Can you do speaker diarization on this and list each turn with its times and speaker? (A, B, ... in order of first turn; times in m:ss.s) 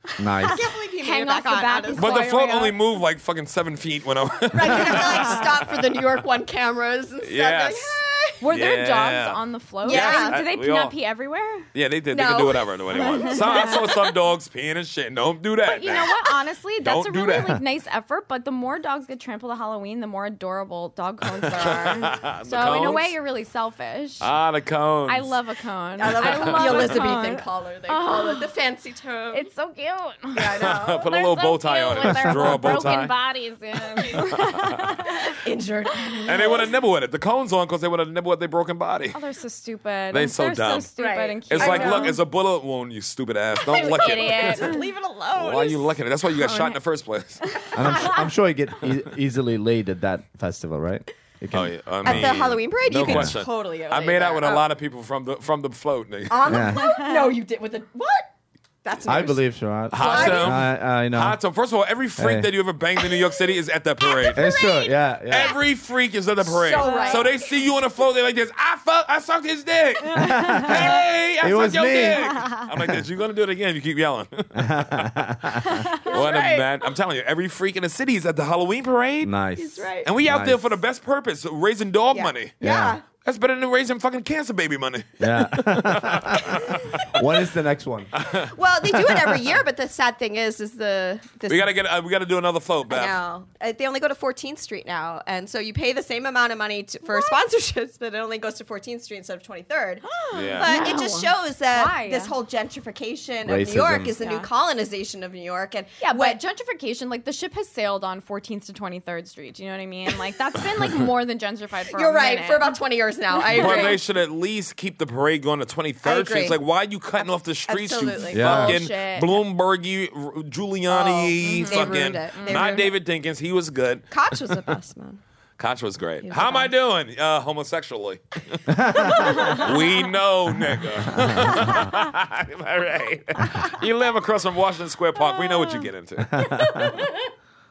0:00.2-0:00.6 A
0:00.4-0:02.8 B
0:00.5-0:02.3 C
0:01.9-0:06.0 D
0:04.5-0:08.4 C
0:05.1-0:05.4 B
0:07.2-0:08.0 D
0:08.4-0:11.6 B
0:08.5-0:10.9 D
0:09.8-0:10.4 C
0:11.7-0:16.2 D
0:12.1-0:14.1 C
0:13.0-0:13.9 B
0:15.6-0:24.3 B
0:16.8-0:17.6 D
0:21.6-0:23.2 D
0:24.2-0:25.3 D
0:25.1-0:28.5 B
0:26.0-0:29.5 C
0:26.2-0:27.0 D
0:29.3-0:35.3 B
0:30.3-0:31.0 C
0:30.5-0:33.1 D
0:32.0-0:33.0 A
0:34.0-0:34.3 C
0:34.1-0:34.7 D
0:35.1-0:36.7 C
0:36.3-0:39.2 D
0:39.1-0:42.2 B
0:40.1-0:40.9 D
0:41.0-0:42.2 C
0:41.5-0:44.7 D
0:43.6-0:45.9 C
0:43.8-0:44.8 B
0:45.3-0:47.6 D
0:46.4-0:46.8 B
0:47.5-0:48.3 B
0:47.7-0:52.4 A
0:51.5-0:56.4 D
0:52.0-0:54.7 C
0:53.0-0:53.4 A
0:56.3-0:58.3 C
0:56.4-0:57.0 A
0:56.7-0:57.3 B
0:58.8-1:00.7 C
0:59.0-1:01.4 A
0:59.9-1:04.5 D
1:02.2-1:02.6 A
1:03.0-1:03.3 C
1:04.0-1:05.5 C
1:04.3-1:05.6 A
1:05.3-1:15.0 D
1:06.4-1:07.6 C
1:06.7-1:07.3 B
1:10.0-1:10.7 B
1:10.1-1:12.2 A
1:14.5-1:15.8 A
1:15.6-1:16.2 B
1:16.0-1:16.6 C
1:16.1-1:19.3 D
1:19.2-1:20.6 A
1:19.6-1:20.1 C
1:20.0-1:22.5 D
1:22.1-1:23.0 C
1:22.6-1:23.0 A
1:23.2-1:26.6 D
1:25.2-1:28.1 A
1:28.2-1:28.5 D
1:28.5-1:31.7 C
1:31.5-1:33.2 D
1:32.9-1:46.4 C
1:37.0-1:37.4 B
1:40.0-1:42.3 B
1:40.3-1:40.7 D
1:43.4-1:44.2 A
1:44.2-1:44.5 B
1:46.0-1:52.7 B
1:51.9-1:54.0 C
1:53.3-1:54.0 B
1:53.5-2:04.1 D
1:56.0-1:56.6 C
1:57.7-1:58.4 C
1:58.3-1:58.8 A
1:58.4-1:59.3 B
2:00.9-2:02.9 C
2:01.4-2:02.9 B
2:04.1-2:05.2 C
2:05.6-2:08.6 D
2:06.2-2:06.7 C
2:08.7-2:09.5 A
2:09.3-2:09.6 B
2:09.5-2:16.5 D
2:11.2-2:11.6 A
2:15.3-2:15.8 B
2:16.4-2:16.8 A
2:16.8-2:17.2 C